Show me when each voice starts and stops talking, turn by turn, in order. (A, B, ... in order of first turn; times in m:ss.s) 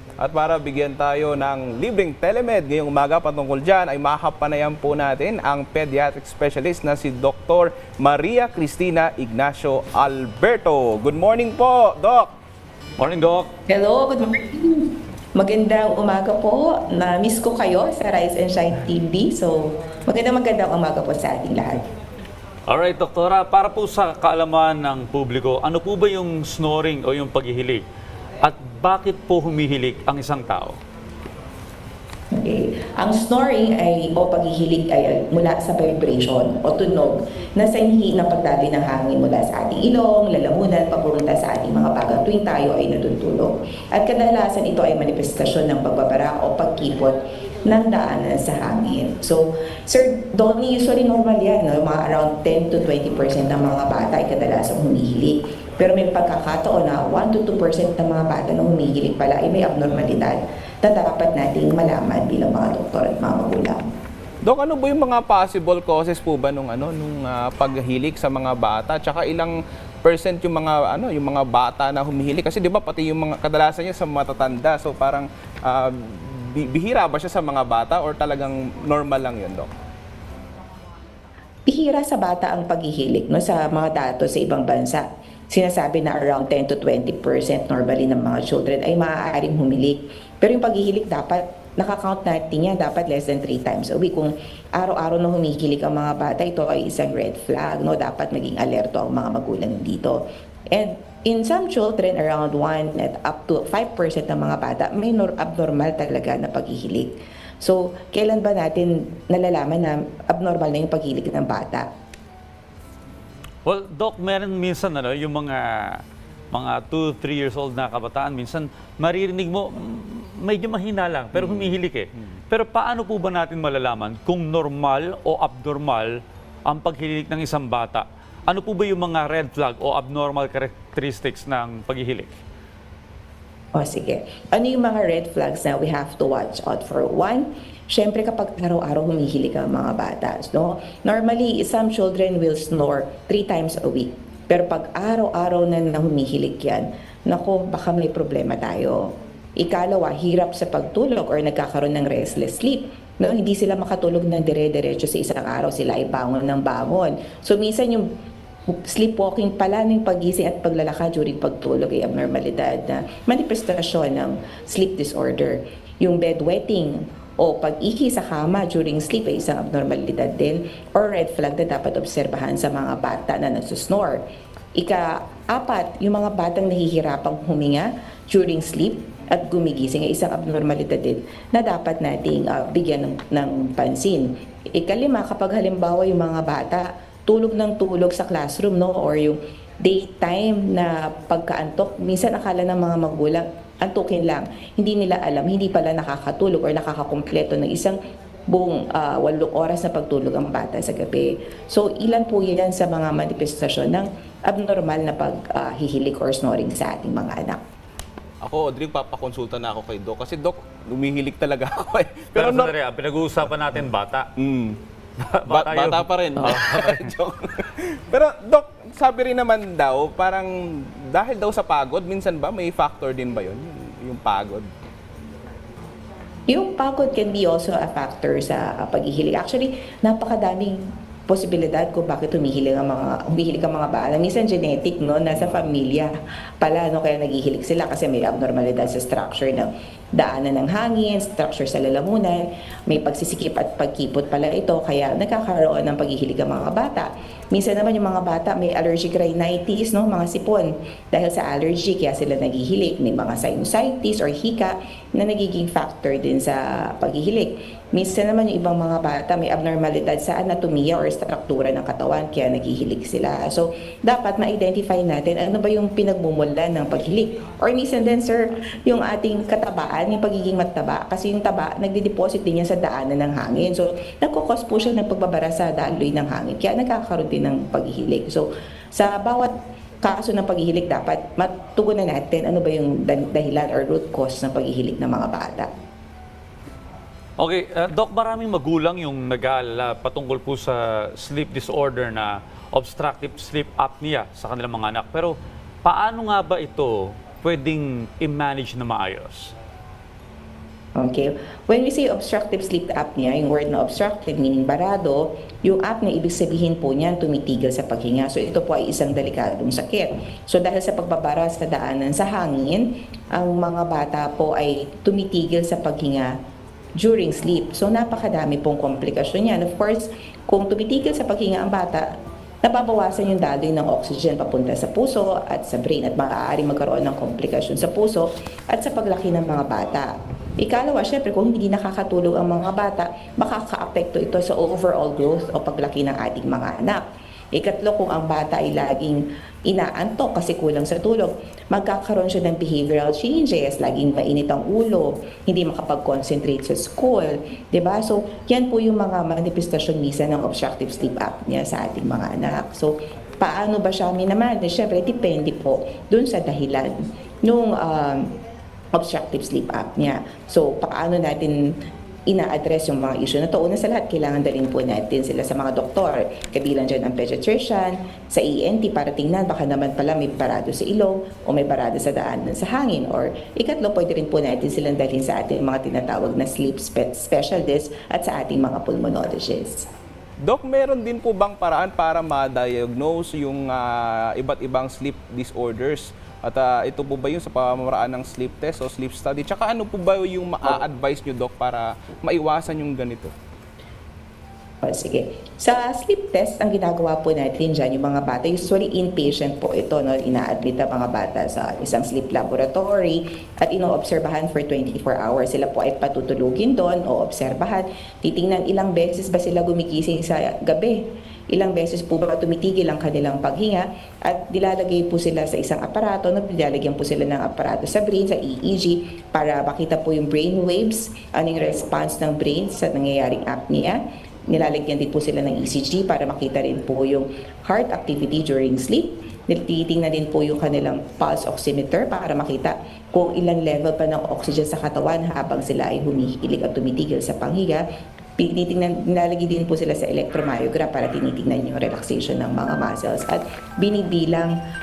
0:00.2-0:12.3 A
0:13.0-0:13.5 B
0:13.7-0:21.8 C
0:22.7-0:27.8 B
0:28.4-0:30.8 B
0:32.3-1:03.9 C
1:04.4-1:19.7 A
1:21.7-1:51.9 C
1:53.6-2:12.3 B
2:01.4-2:01.8 A
2:13.8-2:38.1 C
2:38.7-2:54.2 C
2:54.8-3:18.0 C
3:18.5-3:27.6 C
3:28.4-3:32.7 A
3:32.4-3:34.3 B
3:34.4-3:34.8 A
3:35.2-3:37.1 B
3:35.5-3:44.7 A
3:46.5-4:45.7 C
4:47.4-4:59.5 B
5:01.0-5:16.4 C
5:17.0-5:22.1 C
5:22.6-5:37.0 C
5:37.5-5:58.3 C
5:58.9-6:01.6 C
6:02.3-6:19.9 C
6:20.4-6:33.3 A
6:34.8-7:17.8 C
7:18.4-7:24.6 C